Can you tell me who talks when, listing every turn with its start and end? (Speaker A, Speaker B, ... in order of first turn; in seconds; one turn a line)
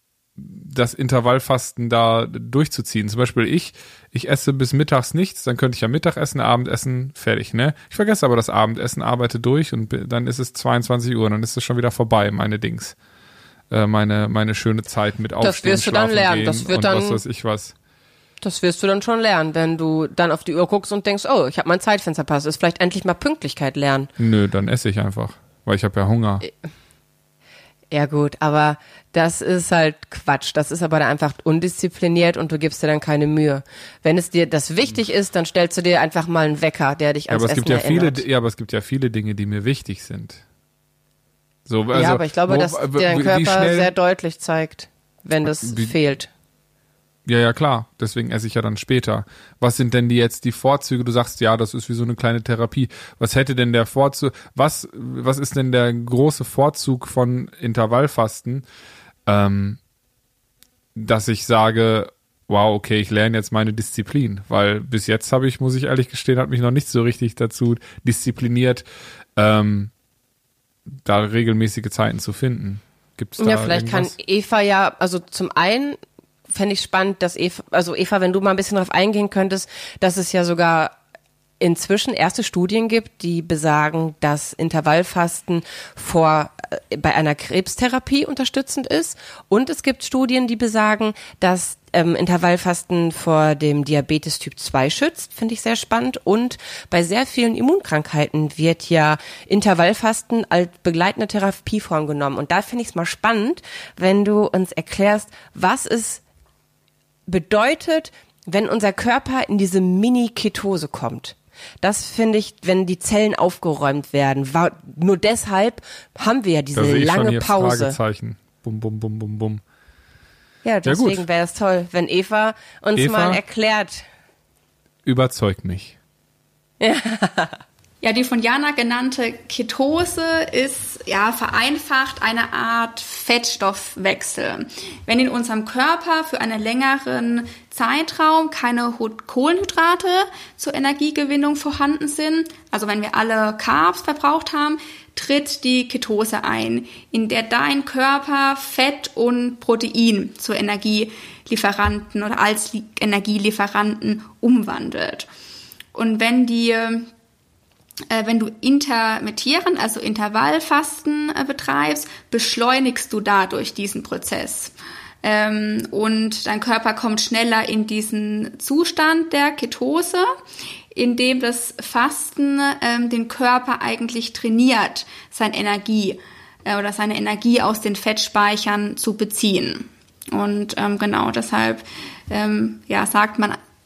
Speaker A: 0.4-12.9
Speaker A: 13.7-17.7
Speaker B: 15.4-17.2
Speaker B: 18.4-24.1
Speaker A: 24.2-26.4
Speaker B: 27.9-38.2
Speaker A: 37.3-40.4
Speaker A: 41.7-43.9
Speaker B: 41.9-46.3
Speaker A: 45.5-45.9
Speaker A: 47.2-58.6
Speaker A: 59.3-59.8
Speaker A: 60.9-68.8
Speaker A: 69.3-69.9
Speaker A: 71.0-74.1
Speaker B: 73.4-80.9
Speaker B: 81.6-106.2
Speaker B: 107.3-118.0
Speaker A: 116.7-119.6
Speaker B: 120.6-124.0
Speaker A: 120.8-121.2
Speaker A: 123.0-123.4
Speaker A: 125.0-126.0
Speaker B: 126.8-127.6
Speaker C: 128.0-155.3
Speaker C: 155.9-157.1
Speaker C: 158.1-170.3
Speaker C: 170.9-183.6